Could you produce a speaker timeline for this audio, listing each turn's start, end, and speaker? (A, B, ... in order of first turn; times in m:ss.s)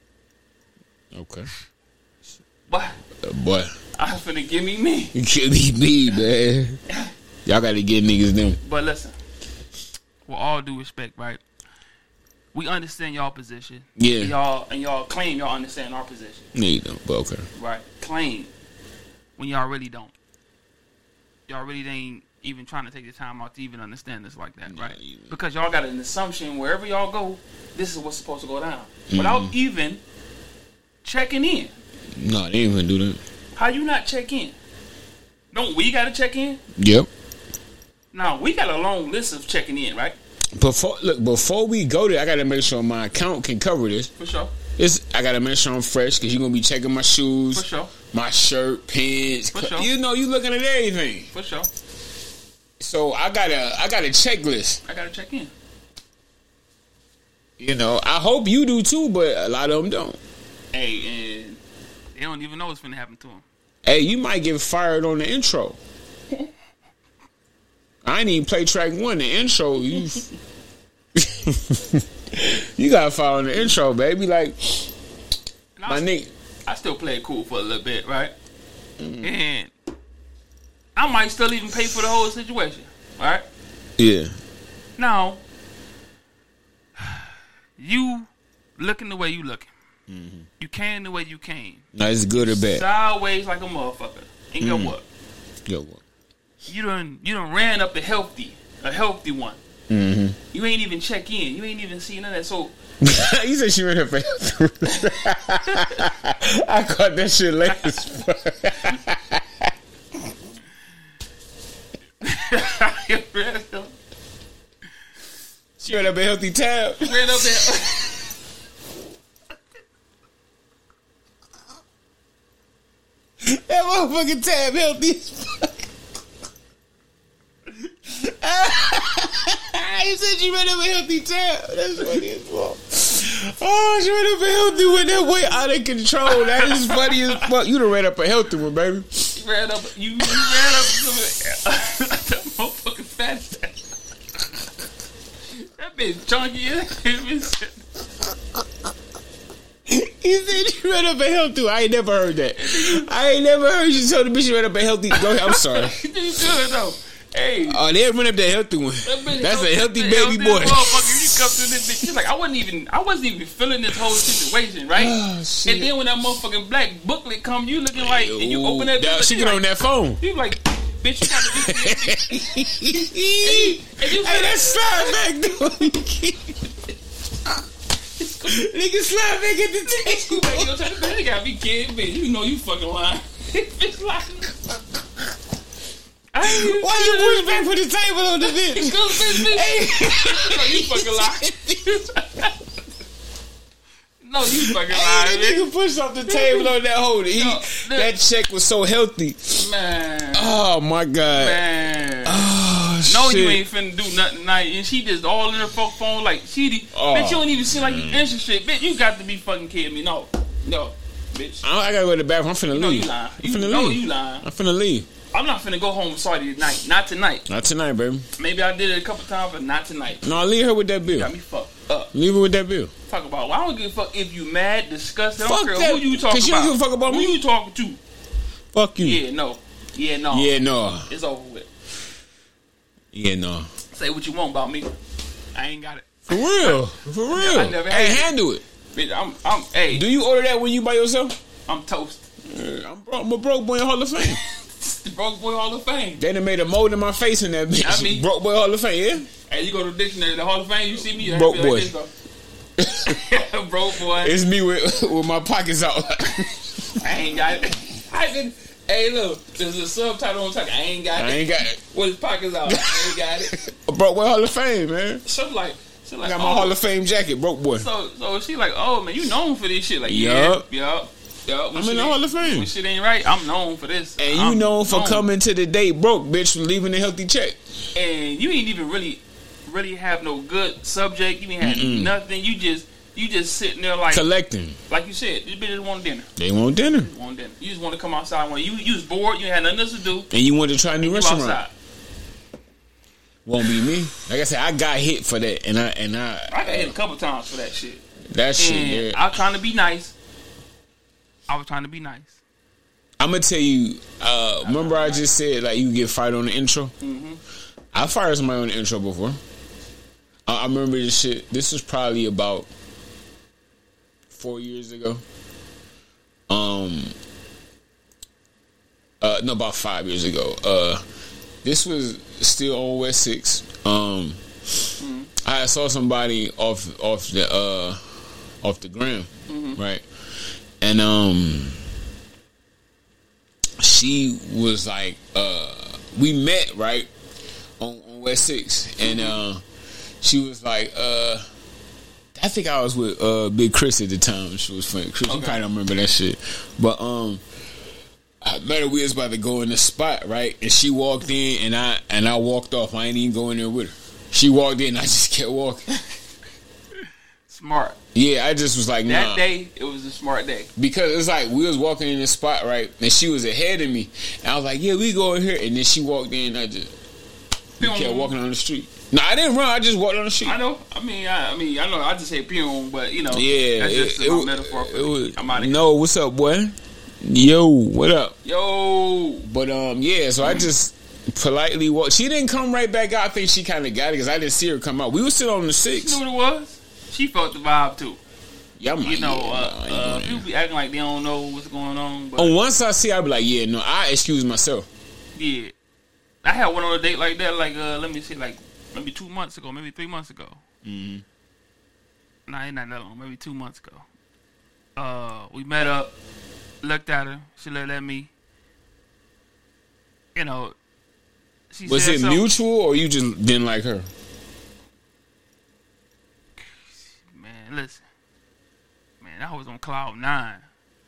0:01.1-0:01.5 A
0:02.7-0:03.0 B
0:03.2-0:03.7 A
0:03.9-0:05.2 B
0:05.1-0:06.8 A
0:07.4-0:08.6 A
0:08.6-0:09.2 B
0:10.2-0:11.4 B
0:12.5-0:16.5 B
0:14.0-0:14.3 A
0:16.6-0:17.5 A
0:17.6-0:18.5 B
0:19.4-0:20.1 B
0:21.5-0:30.0 B
0:24.7-0:25.3 A
0:29.1-0:29.5 A
0:31.0-0:31.7 B
0:32.1-0:33.2 A
0:33.6-0:34.6 B
0:35.5-0:36.6 B
0:36.8-0:37.1 A
0:38.1-0:40.2 B
0:40.6-0:44.1 A
0:44.2-0:44.5 B
0:44.8-0:51.3 A
0:47.5-0:47.9 B
0:49.5-0:49.9 B
0:51.3-0:51.7 B
0:52.8-0:54.8 A
0:54.8-0:55.5 B
0:57.6-1:00.2 A
1:00.7-1:01.6 B
1:02.1-1:03.4 B
1:03.8-1:05.8 A
1:08.0-1:10.3 A
1:11.2-1:14.9 A
1:15.8-1:16.1 B
1:15.9-1:16.3 A
1:16.6-1:18.3 B
1:19.0-1:19.3 A
1:19.2-1:19.7 B
1:21.0-1:23.4 B
1:24.0-1:24.3 A
1:25.0-1:25.4 B
1:27.0-1:29.7 B
1:30.1-1:30.5 A
1:30.6-1:31.8 B
1:31.9-1:32.8 A
1:32.4-1:35.0 B
1:34.6-1:34.9 A
1:35.7-1:36.0 A
1:36.7-1:39.6 B
1:39.9-1:40.4 A
1:40.5-1:42.7 B
1:43.0-1:49.7 A
1:47.7-1:48.0 B
1:52.2-1:53.9 B
1:55.8-1:56.1 B
1:55.8-1:58.1 A
1:57.0-1:58.2 B
2:03.4-2:05.8 A
2:08.1-2:19.3 A
2:16.3-2:17.4 B
2:19.3-2:23.8 B
2:25.5-2:27.8 B
2:29.9-2:36.0 A
2:32.6-2:33.1 B
2:35.1-2:37.8 B
2:37.6-2:41.6 A
2:39.0-2:49.6 B
2:44.9-2:45.9 A
2:47.9-2:50.2 A
2:50.2-2:55.3 B
2:51.2-2:56.6 A
2:58.2-2:58.6 B
2:58.4-3:01.0 A
2:59.8-3:04.6 B
3:06.3-3:07.7 B
3:06.4-3:11.9 A
3:08.4-3:12.5 B
3:14.2-3:15.7 B
3:14.4-3:19.7 A
3:16.3-3:16.7 B
3:17.3-3:18.1 B
3:19.6-3:20.6 B
3:20.3-3:21.6 A
3:21.3-3:22.5 B
3:22.2-3:23.6 A
3:23.0-3:31.6 B
3:26.9-3:28.2 A
3:31.6-3:35.1 A
3:32.7-3:34.4 B
3:35.3-3:37.5 B
3:37.5-3:38.3 A
3:38.4-3:40.5 B
3:40.2-3:41.3 A
3:41.1-3:42.1 B
3:42.1-3:42.9 A
3:43.1-3:48.0 B
3:45.4-3:47.4 A
3:48.7-3:49.2 A
3:49.0-3:50.5 B
3:50.3-3:51.1 A
3:51.1-3:51.7 B
3:53.1-3:53.7 A
3:53.9-3:54.9 B
3:55.6-3:58.3 B
3:56.3-3:58.6 A
3:58.9-4:00.0 B
3:59.9-4:01.3 A
4:01.7-4:02.2 B
4:02.4-4:04.4 A
4:04.4-4:06.2 B
4:06.2-4:09.3 A
4:07.8-4:08.3 B
4:09.5-4:12.1 B
4:11.1-4:11.9 A
4:12.8-4:13.3 A
4:13.0-4:14.4 B
4:14.1-4:17.1 A
4:16.9-4:23.6 B
4:21.2-4:21.8 A
4:22.6-4:25.2 A
4:25.2-4:26.7 B
4:26.2-4:27.9 A
4:27.7-4:35.3 B
4:30.1-4:30.7 A
4:31.7-4:32.7 A
4:34.2-4:37.6 A
4:37.9-4:44.3 B
4:41.6-4:42.1 A
4:44.1-4:44.8 A
4:44.9-4:46.3 B
4:46.4-4:47.1 A
4:47.0-4:50.3 B
4:50.3-4:51.6 A
4:51.0-4:51.7 B
4:53.4-4:56.9 A
4:56.5-4:58.0 B
4:58.3-4:59.2 A
4:58.6-5:00.1 B
5:01.5-5:02.4 B
5:03.2-5:06.9 A
5:04.6-5:05.3 B
5:07.0-5:07.4 B
5:07.9-5:09.4 A
5:10.5-5:12.7 A
5:14.3-5:15.2 A
5:16.5-5:17.1 A
5:19.2-5:21.0 A
5:21.6-5:24.9 A
5:25.0-5:25.3 B
5:25.4-5:28.0 A
5:28.6-5:30.0 A
5:29.5-5:29.8 B
5:30.8-5:31.8 A
5:33.8-5:37.1 A
5:37.8-5:39.6 A
5:39.0-5:39.4 B
5:40.2-5:41.4 A
5:42.3-5:47.4 A
5:45.3-5:45.6 B
5:48.4-5:55.9 A
5:57.5-5:58.0 B
5:58.1-5:59.4 A
5:59.0-6:00.7 B
6:00.8-6:06.9 A
6:07.8-6:10.6 A
6:07.8-6:08.4 B
6:10.4-6:15.8 B
6:13.3-6:18.4 A
6:18.4-6:19.4 B
6:19.4-6:26.2 A
6:20.4-6:20.7 B
6:25.9-6:28.2 B
6:28.8-6:30.4 A
6:29.0-6:32.6 B
6:32.4-6:34.9 A
6:35.4-6:35.7 B
6:36.4-6:40.6 B
6:40.8-6:41.2 A
6:42.5-6:44.1 B
6:45.0-6:46.1 B
6:46.8-6:48.3 B
6:50.3-6:50.8 B
6:51.7-6:52.4 B
6:51.9-6:54.1 A
6:56.6-6:58.0 B
6:59.2-7:00.6 B